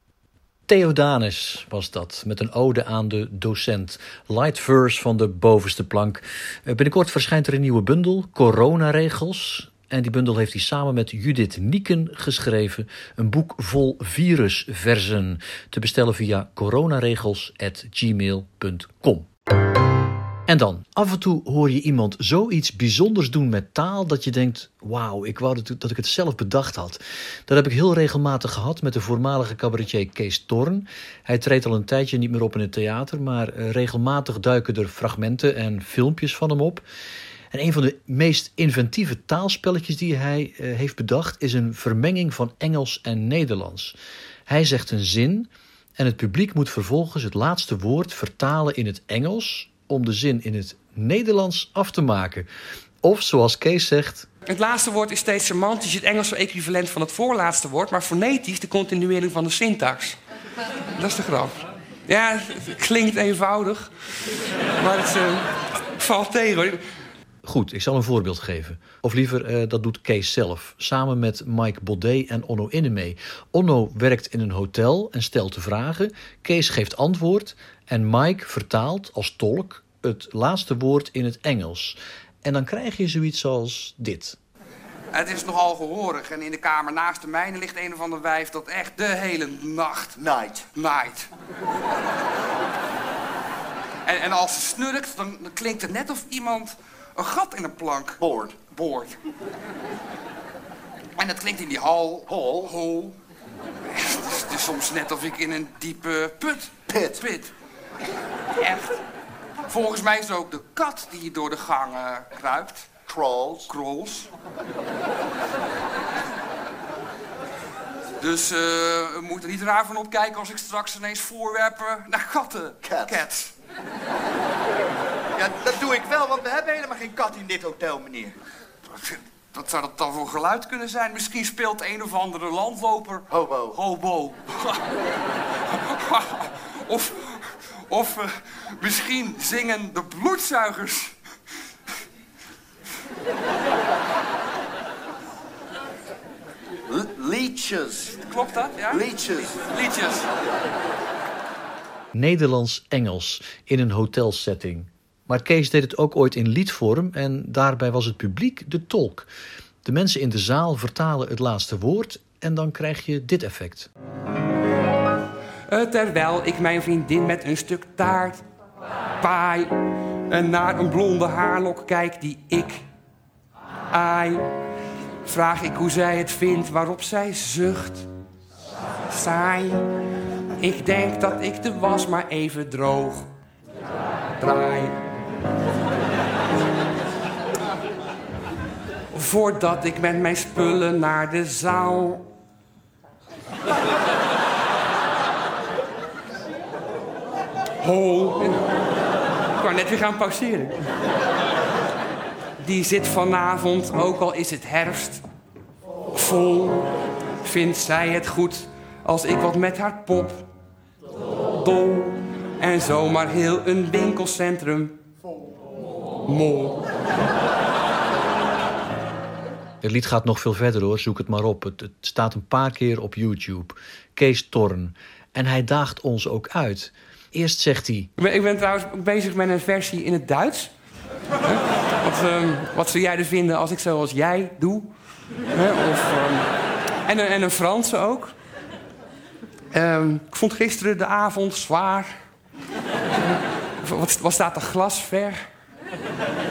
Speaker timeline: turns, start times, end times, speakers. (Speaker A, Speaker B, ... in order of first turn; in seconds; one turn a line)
Speaker A: 0.7-19.3
Speaker A: 20.5-36.8
Speaker A: 37.5-44.0
Speaker A: 44.5-52.5
Speaker A: 53.0-54.3
Speaker B: 54.5-60.2
Speaker B: 61.0-63.9
Speaker B: 64.8-66.8
Speaker A: 67.4-84.4
Speaker C: 85.1-90.1
Speaker D: 90.2-90.7
Speaker C: 90.7-91.3
Speaker C: 94.0-99.1
Speaker D: 98.2-98.7
Speaker C: 101.2-103.2
Speaker D: 102.3-102.8
Speaker C: 103.9-107.5
Speaker D: 106.9-107.3
Speaker C: 108.6-109.0
Speaker C: 109.7-112.9
Speaker D: 113.1-113.7
Speaker C: 113.7-114.3
Speaker C: 118.2-123.5
Speaker D: 122.8-123.3
Speaker D: 125.4-128.3
Speaker C: 129.5-133.2
Speaker D: 133.3-133.9
Speaker C: 134.0-134.8
Speaker C: 136.0-141.1
Speaker D: 146.9-148.2
Speaker C: 148.3-149.0
Speaker D: 148.9-149.6
Speaker C: 149.7-150.3
Speaker A: 152.1-159.3
Speaker A: 159.8-163.9
Speaker B: 165.7-168.4
Speaker B: 169.2-169.7
Speaker B: 170.3-172.8
Speaker B: 173.9-174.4
Speaker B: 175.2-178.1
Speaker B: 179.1-179.8
Speaker B: 180.6-183.3
Speaker B: 184.4-184.9
Speaker B: 189.1-192.3
Speaker B: 197.8-198.7
Speaker B: 199.6-200.8
Speaker B: 202.6-205.2
Speaker B: 206.1-206.9
Speaker B: 207.4-210.4
Speaker B: 211.6-215.0
Speaker B: 216.3-216.8
Speaker A: 219.8-228.1
Speaker B: 228.2-230.7
Speaker B: 231.4-234.9
Speaker B: 235.5-236.5
Speaker B: 237.1-238.3
Speaker B: 239.7-242.1
Speaker B: 243.8-245.4